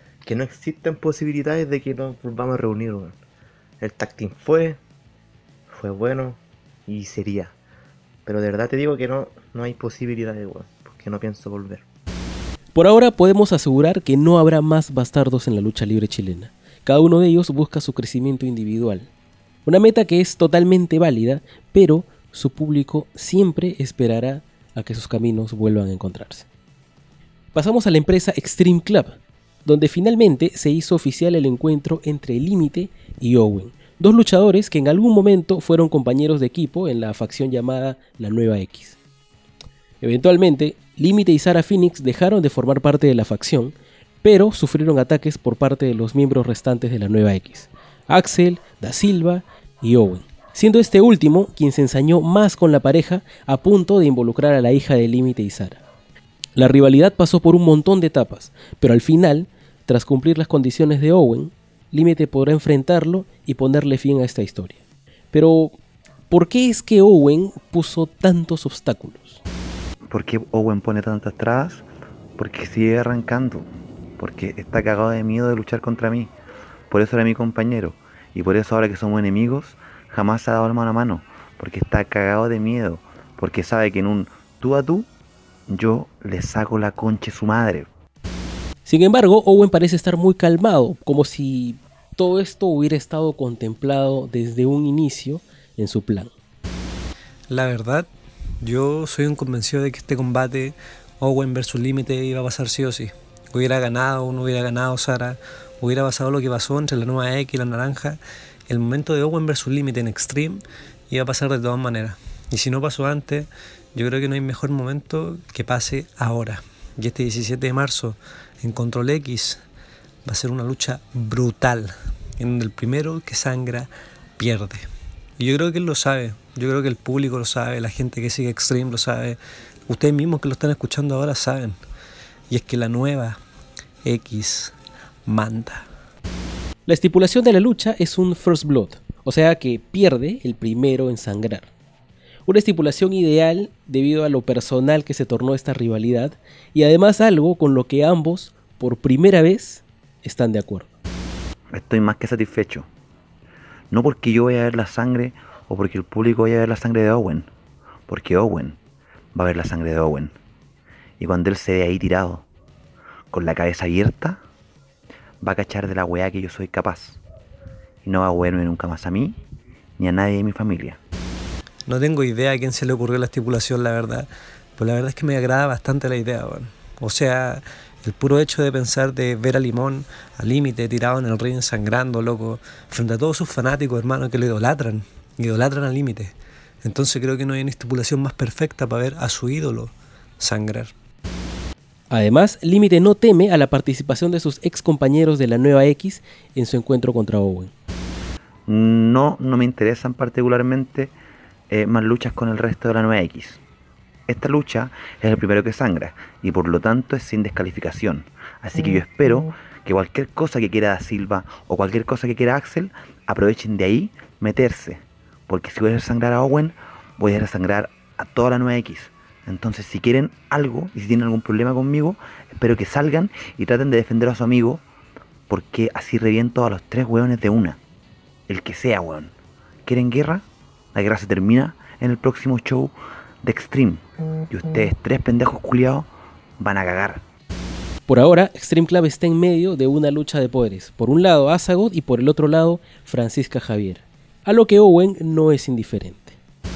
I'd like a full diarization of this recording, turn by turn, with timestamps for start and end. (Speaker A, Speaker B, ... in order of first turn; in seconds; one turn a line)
Speaker A: 0.2-3.2
Speaker A: 3.8-4.8
Speaker A: 5.7-7.5
Speaker A: 8.2-11.8
Speaker B: 12.7-19.1
Speaker B: 19.6-26.4
Speaker B: 27.5-39.0
Speaker B: 40.0-55.8
Speaker B: 56.6-64.8
Speaker B: 65.3-65.8
Speaker B: 66.3-69.4
Speaker C: 70.1-71.8
Speaker C: 72.4-73.7
Speaker C: 74.2-76.3
Speaker C: 76.9-85.1
Speaker C: 85.7-87.9
Speaker B: 88.8-96.3
Speaker D: 97.5-98.1
Speaker D: 98.6-119.6
Speaker D: 120.2-124.8
Speaker D: 125.4-131.8
Speaker D: 132.5-133.4
Speaker D: 134.0-134.7
Speaker D: 135.2-135.9
Speaker B: 136.9-141.7
Speaker B: 142.5-150.9
Speaker C: 151.7-152.9
Speaker C: 153.9-157.5
Speaker C: 158.1-158.8
Speaker C: 159.3-160.3
Speaker C: 161.2-162.4
Speaker C: 163.3-164.4
Speaker C: 165.4-167.2
Speaker C: 168.0-169.4
Speaker C: 170.0-171.0
Speaker D: 171.8-190.9
Speaker B: 192.1-197.7
Speaker C: 198.7-201.1
Speaker C: 201.7-203.6
Speaker C: 204.3-224.8
Speaker C: 225.5-227.8
Speaker C: 228.5-229.3
Speaker C: 229.8-237.2
Speaker B: 238.1-246.4